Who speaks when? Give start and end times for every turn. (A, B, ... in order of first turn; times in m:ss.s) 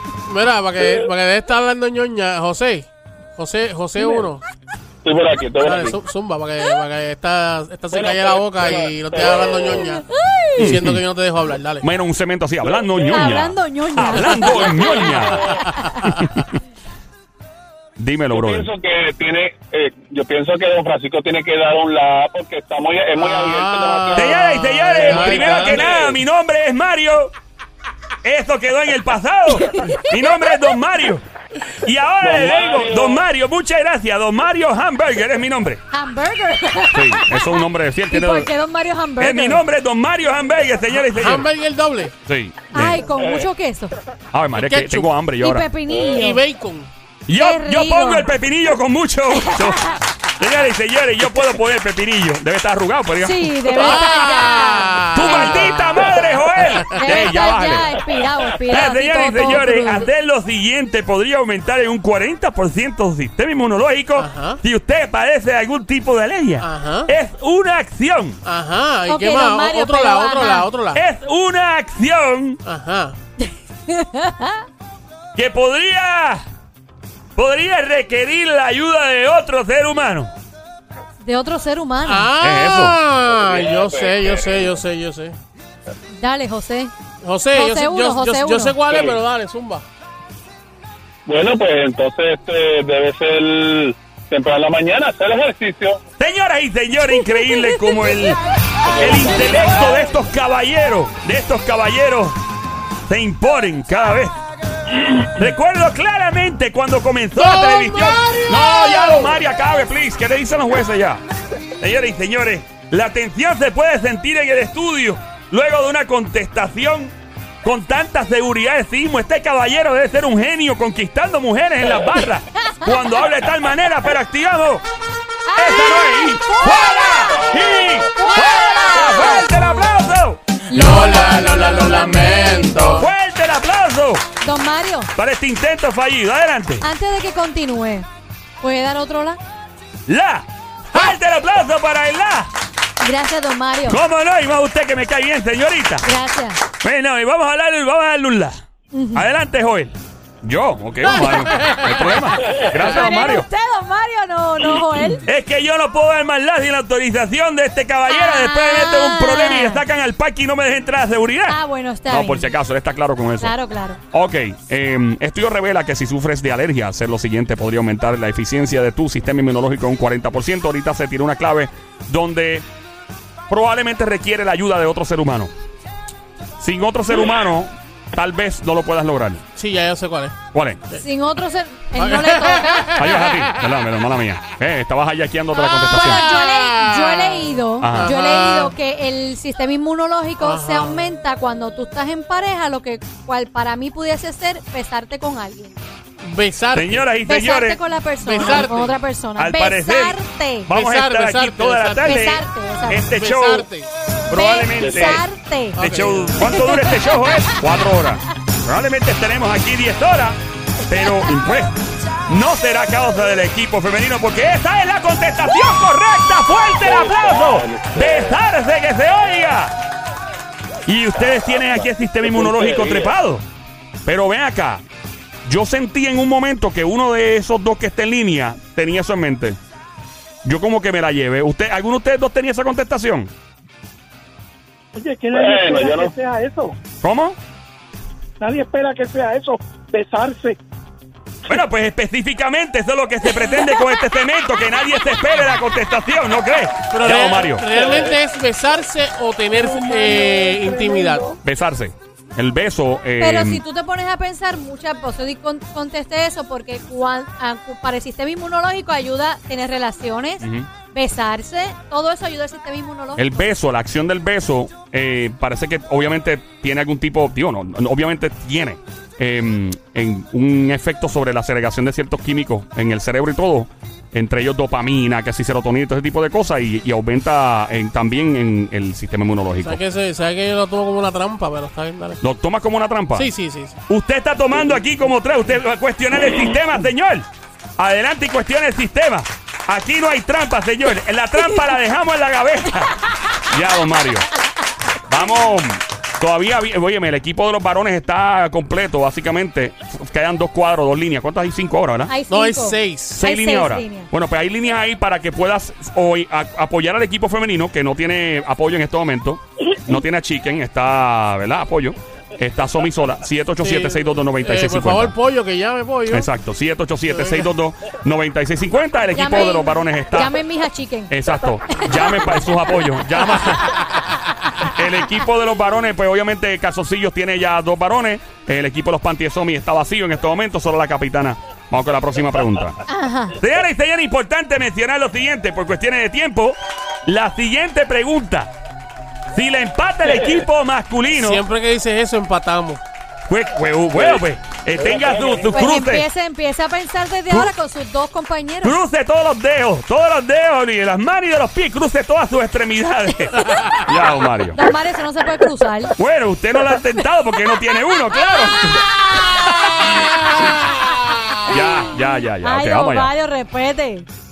0:00.2-0:04.4 A
0:05.0-0:06.0 B
0:05.6-0:10.0 A
0:07.9-0:09.9 B
0:10.0-0:10.7 C
0:10.6-0:11.9 A
0:10.6-0:11.0 D
0:11.8-0:16.4 D
0:13.0-0:16.0 C
0:14.6-0:15.5 B
0:18.0-0:18.7 D
0:18.3-0:26.2 B
0:23.2-0:25.9 A
0:24.1-0:27.3 D
0:28.2-0:31.2 D
0:29.6-0:30.1 C
0:31.8-0:35.8 D
0:32.2-0:33.2 B
0:35.9-0:39.6 C
0:36.9-0:38.5 D
0:39.2-0:41.5 D
0:41.1-0:42.1 A
0:42.2-0:43.0 D
0:42.7-0:43.9 C
0:43.2-0:43.4 B
0:44.3-0:45.7 D
0:44.6-0:45.1 A
0:45.4-0:46.4 C
0:46.0-0:46.9 A
0:47.3-0:54.2 D
0:47.4-0:48.3 C
0:49.4-0:50.0 C
0:53.2-0:55.9 C
0:53.7-0:55.7 A
0:55.1-0:58.0 D
0:56.9-1:00.1 C
0:58.6-1:08.4 D
1:04.2-1:04.6 A
1:06.6-1:07.1 A
1:08.4-1:11.0 A
1:09.1-1:10.7 C
1:10.9-1:12.6 D
1:12.6-1:13.2 A
1:13.4-1:14.6 C
1:15.4-1:16.4 D
1:17.4-1:20.3 D
1:21.2-1:22.3 C
1:22.0-1:25.4 A
1:22.4-1:23.0 D
1:23.3-1:24.8 B
1:26.2-1:26.9 C
1:27.2-1:29.8 A
1:27.5-1:28.8 C
1:28.9-1:29.2 B
1:31.2-1:36.0 B
1:36.2-1:38.4 D
1:37.4-1:37.9 C
1:38.8-1:39.9 B
1:39.0-1:42.4 D
1:43.1-1:44.4 D
1:45.2-1:51.2 D
1:47.4-1:49.4 A
1:51.8-2:04.8 D
2:02.7-2:03.1 C
2:05.5-2:07.5 C
2:05.6-2:10.6 D
2:07.3-2:08.1 B
2:08.2-2:09.8 C
2:10.7-2:13.0 C
2:10.7-2:13.1 A
2:12.8-2:14.2 D
2:14.4-2:15.1 C
2:15.2-2:16.9 D
2:16.8-2:18.0 C
2:18.6-2:19.4 C
2:20.1-2:22.5 D
2:23.0-2:24.0 C
2:23.9-2:26.1 D
2:26.0-2:26.6 C
2:26.8-2:28.6 D
2:28.9-2:29.2 C
2:29.1-2:33.5 D
2:31.0-2:31.8 C
2:32.4-2:35.3 C
2:35.2-2:43.5 D
2:38.1-2:39.8 C
2:41.5-2:42.5 C
2:43.4-2:44.0 C
2:44.1-2:52.6 D
2:53.5-2:55.5 D
2:56.6-2:59.4 D
2:59.6-3:00.4 A
3:00.5-3:00.8 D
3:01.0-3:03.0 C
3:02.0-3:03.6 A
3:02.9-3:06.2 D
3:05.6-3:15.8 C
3:05.9-3:08.7 A
3:07.8-3:08.1 D
3:10.4-3:11.1 A
3:16.2-3:17.0 A
3:16.7-3:17.8 D
3:17.2-3:20.7 C
3:18.2-3:18.9 A
3:19.4-3:23.7 D
3:20.7-3:22.2 A
3:22.0-3:23.0 C
3:23.1-3:23.9 A
3:24.3-3:25.2 D
3:24.3-3:25.8 C
3:24.8-3:25.2 B
3:25.8-3:26.5 A
3:25.8-3:31.8 D
3:26.4-3:27.3 C
3:32.3-3:39.8 D
3:36.8-3:38.4 B
3:40.9-3:43.4 D
3:41.2-3:43.1 B
3:44.0-3:44.8 D
3:45.4-3:49.6 D
3:50.4-3:53.3 D
3:54.9-3:56.8 E
3:55.3-3:56.1 B
3:57.0-3:57.4 D
3:58.4-4:00.6 E
4:01.5-4:07.7 D
4:06.9-4:11.2 A
4:07.8-4:08.1 B
4:09.5-4:11.4 E
4:11.4-4:13.6 D
4:13.2-4:23.5 C
4:20.4-4:20.7 D
4:23.2-4:39.8 D
4:39.6-4:42.2 A
4:42.2-4:43.3 D
4:43.1-4:43.8 A
4:43.9-4:54.3 D
4:55.1-5:02.1 D
5:02.1-5:04.1 C
5:02.3-5:03.2 A
5:03.1-5:15.1 D
5:13.6-5:16.3 A
5:16.1-5:20.4 D
5:17.1-5:17.5 A
5:19.1-5:22.5 C
5:21.1-5:23.8 D
5:23.3-5:23.9 C
5:24.6-5:32.8 D
5:32.9-5:33.4 C
5:33.3-5:38.5 D
5:39.3-5:41.4 D
5:41.2-5:42.8 A
5:43.3-5:46.0 D
5:43.9-5:44.2 B
5:44.8-5:45.6 B
5:45.5-5:48.8 C
5:48.6-5:54.6 D
5:53.5-5:53.8 A
5:54.5-5:55.9 C
5:56.0-6:00.4 D
5:58.1-6:00.1 C
5:59.9-6:01.5 A
6:01.5-6:03.1 D
6:01.5-6:04.1 C